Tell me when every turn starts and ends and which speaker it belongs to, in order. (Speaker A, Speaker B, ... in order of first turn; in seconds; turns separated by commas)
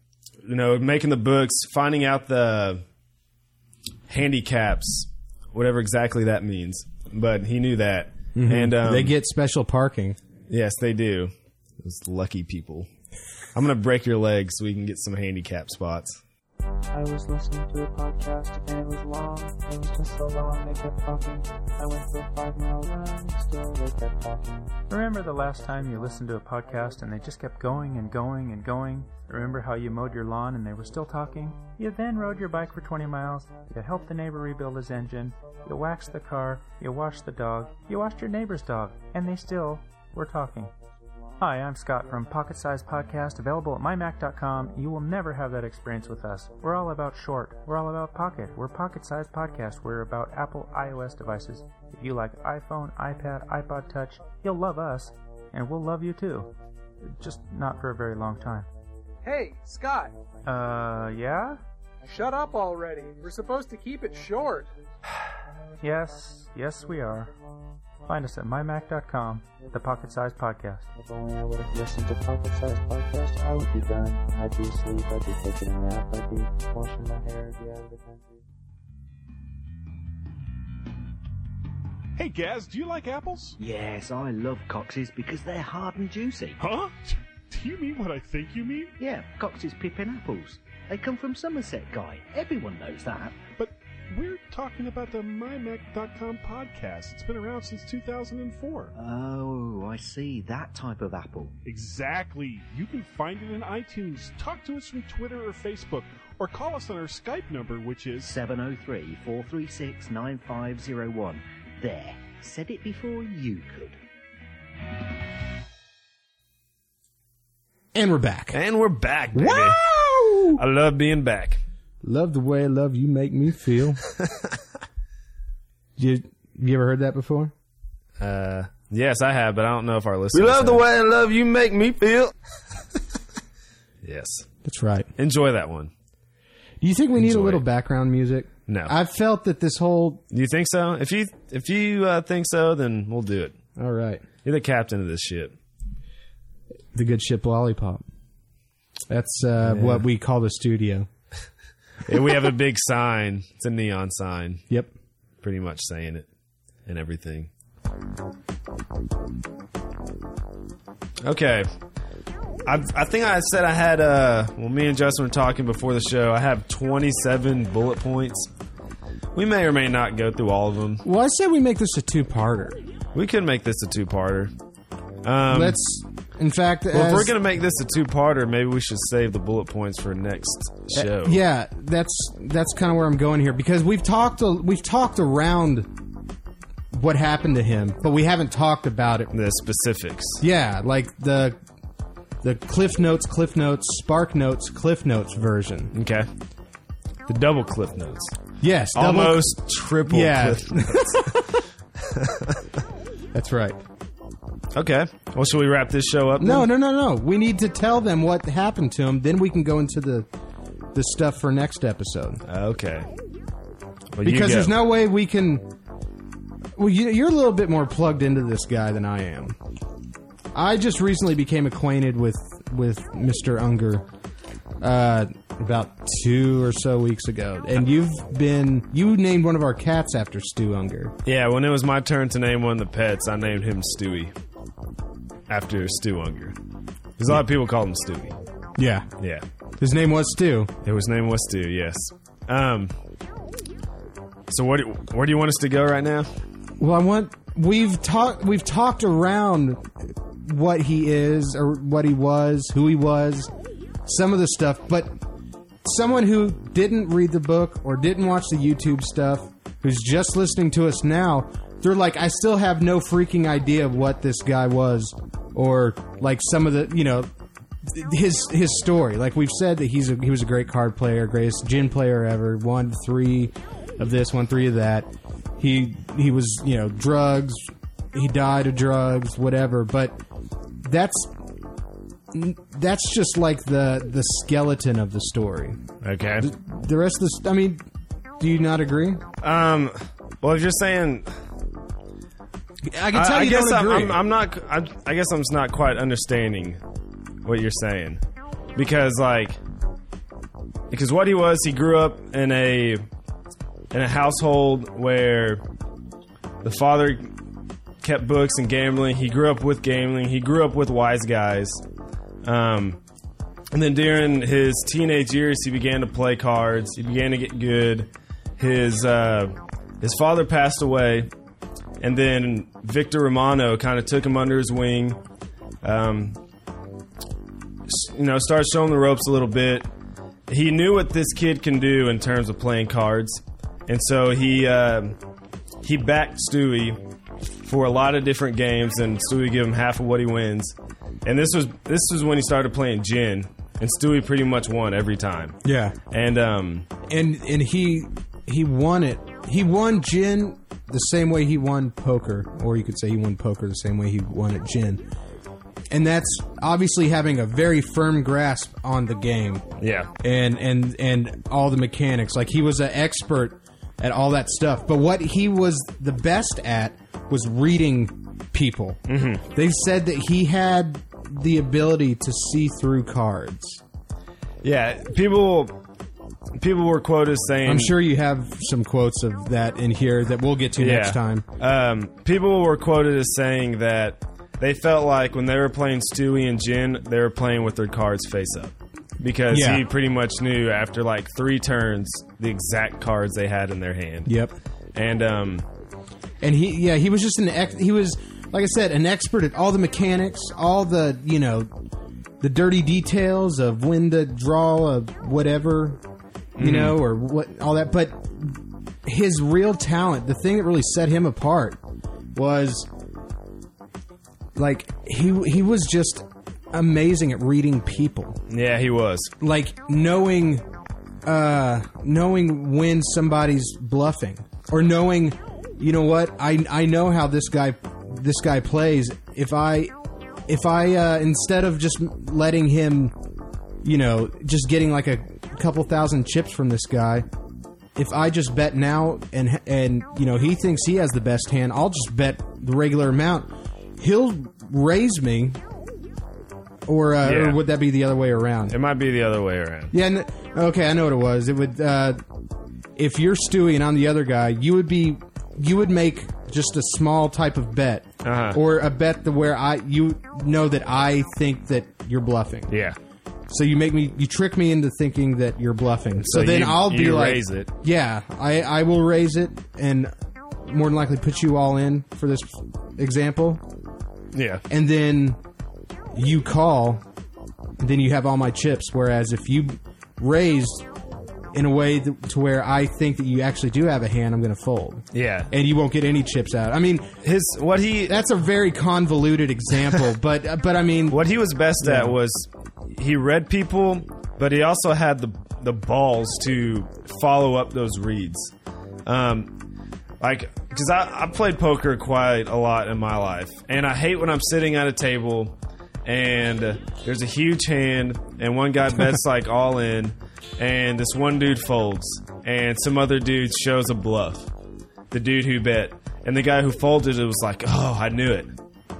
Speaker A: 0.4-2.8, Speaker A: 4.1-9.1, Speaker B: 8.3-10.2, Speaker A: 10.5-12.9, Speaker A: 13.5-16.2, Speaker C: 16.9-24.7, Speaker D: 24.9-40.7, Speaker D: 41.4-56.5, Speaker D: 57.2-58.7, Speaker E: 59.2-60.1, Speaker D: 60.5-61.6, Speaker E: 62.0-64.7, Speaker D: 65.8-67.3, Speaker D: 68.0-70.8, Speaker C: 71.0-78.4, Speaker F: 82.2-83.6, Speaker G: 83.6-86.6, Speaker F: 86.6-88.9, Speaker G: 89.0-93.4, Speaker F: 93.6-98.9, Speaker G: 98.9-101.6, Speaker F: 101.6-108.3, Speaker G: 108.2-114.0, Speaker B: 117.9-118.6, Speaker A: 118.5-119.8, Speaker B: 119.3-120.6, Speaker A: 120.5-121.6, Speaker B: 122.0-124.0, Speaker B: 126.0-127.5, Speaker A: 128.2-132.3, Speaker B: 130.3-130.9, Speaker A: 134.0-134.5, Speaker B: 134.6-135.1, Speaker A: 135.2-135.9, Speaker B: 136.8-140.2, Speaker A: 137.2-137.6, Speaker A: 138.7-138.9, Speaker A: 140.3-143.5, Speaker B: 143.8-144.2, Speaker A: 144.4-145.5, Speaker B: 146.9-148.0, Speaker B: 149.1-151.1, Speaker A: 149.6-150.0, Speaker A: 152.1-154.6, Speaker A: 155.4-156.3, Speaker A: 156.8-157.5, Speaker A: 161.2-161.7, Speaker A: 162.7-168.5, Speaker A: 169.3-171.0, Speaker B: 171.0-172.8, Speaker A: 173.1-174.5, Speaker A: 175.2-175.8, Speaker B: 175.5-177.3, Speaker A: 176.9-181.4, Speaker B: 180.9-185.9, Speaker B: 186.9-189.3, Speaker A: 189.3-190.4, Speaker B: 190.4-191.6, Speaker B: 192.4-195.9, Speaker A: 195.9-196.3, Speaker A: 197.3-198.3, Speaker B: 198.6-201.5, Speaker A: 198.9-201.4, Speaker A: 202.0-202.6, Speaker B: 203.3-203.8, Speaker A: 204.7-206.7, Speaker B: 206.4-210.3, Speaker B: 210.9-212.4, Speaker A: 212.4-213.1, Speaker A: 214.1-214.7, Speaker B: 214.2-215.7, Speaker B: 216.8-219.6, Speaker B: 220.5-224.1, Speaker B: 224.8-231.1, Speaker A: 231.2-234.3, Speaker A: 235.5-236.6, Speaker A: 237.2-238.4, Speaker B: 238.8-239.1, Speaker A: 239.2-239.4, Speaker B: 239.8-240.7, Speaker A: 240.8-242.9, Speaker A: 244.5-246.3, Speaker B: 246.8-253.5, Speaker B: 254.0-255.2, Speaker B: 255.8-267.3, Speaker B: 267.8-280.2, Speaker B: 280.8-281.3, Speaker B: 282.3-285.8, Speaker A: 286.0-286.5, Speaker B: 286.4-287.8, Speaker B: 288.4-289.2, Speaker A: 289.4-291.3, Speaker B: 292.9-294.2, Speaker A: 293.1-296.8, Speaker A: 297.4-298.2, Speaker A: 298.8-299.6, Speaker A: 300.9-303.0, Speaker A: 303.9-305.6, Speaker A: 306.6-307.3, Speaker A: 308.0-311.8, Speaker A: 312.4-313.0, Speaker A: 313.7-321.3, Speaker A: 322.0-325.2, Speaker A: 325.8-326.4, Speaker A: 327.9-329.9, Speaker A: 330.5-335.2, Speaker A: 335.8-337.0, Speaker A: 337.6-340.7, Speaker A: 341.2-345.6, Speaker B: 345.6-345.9, Speaker A: 346.1-346.9, Speaker B: 347.1-355.0, Speaker B: 355.9-359.6, Speaker A: 359.8-360.1, Speaker B: 360.2-373.8, Speaker A: 369.1-369.4, Speaker A: 374.6-375.8, Speaker A: 376.6-377.9, Speaker B: 377.6-381.4, Speaker A: 380.8-394.3, Speaker B: 389.5-389.9, Speaker B: 394.2-394.5, Speaker A: 394.9-395.7, Speaker B: 396.4-401.7, Speaker B: 402.4-406.0, Speaker A: 406.6-407.0, Speaker B: 406.6-411.8, Speaker B: 412.3-412.9, Speaker B: 414.5-418.4, Speaker A: 418.5-419.3, Speaker B: 419.4-420.6, Speaker B: 421.2-429.9, Speaker B: 430.5-433.1, Speaker B: 433.8-437.3, Speaker B: 437.9-445.6, Speaker B: 446.9-448.8, Speaker A: 447.2-447.6, Speaker A: 448.7-449.9, Speaker B: 449.9-452.2, Speaker B: 452.9-462.7, Speaker A: 458.2-458.6, Speaker A: 462.7-463.0, Speaker B: 463.5-473.6, Speaker A: 466.2-467.7, Speaker A: 474.3-474.6, Speaker B: 474.7-475.4, Speaker B: 476.1-477.0, Speaker B: 477.8-480.9, Speaker B: 481.5-487.1, Speaker A: 485.1-485.5, Speaker A: 487.2-488.2, Speaker B: 488.1-491.2, Speaker A: 491.1-498.5, Speaker B: 491.8-492.1, Speaker A: 499.1-499.6, Speaker A: 500.2-514.5, Speaker A: 515.1-518.5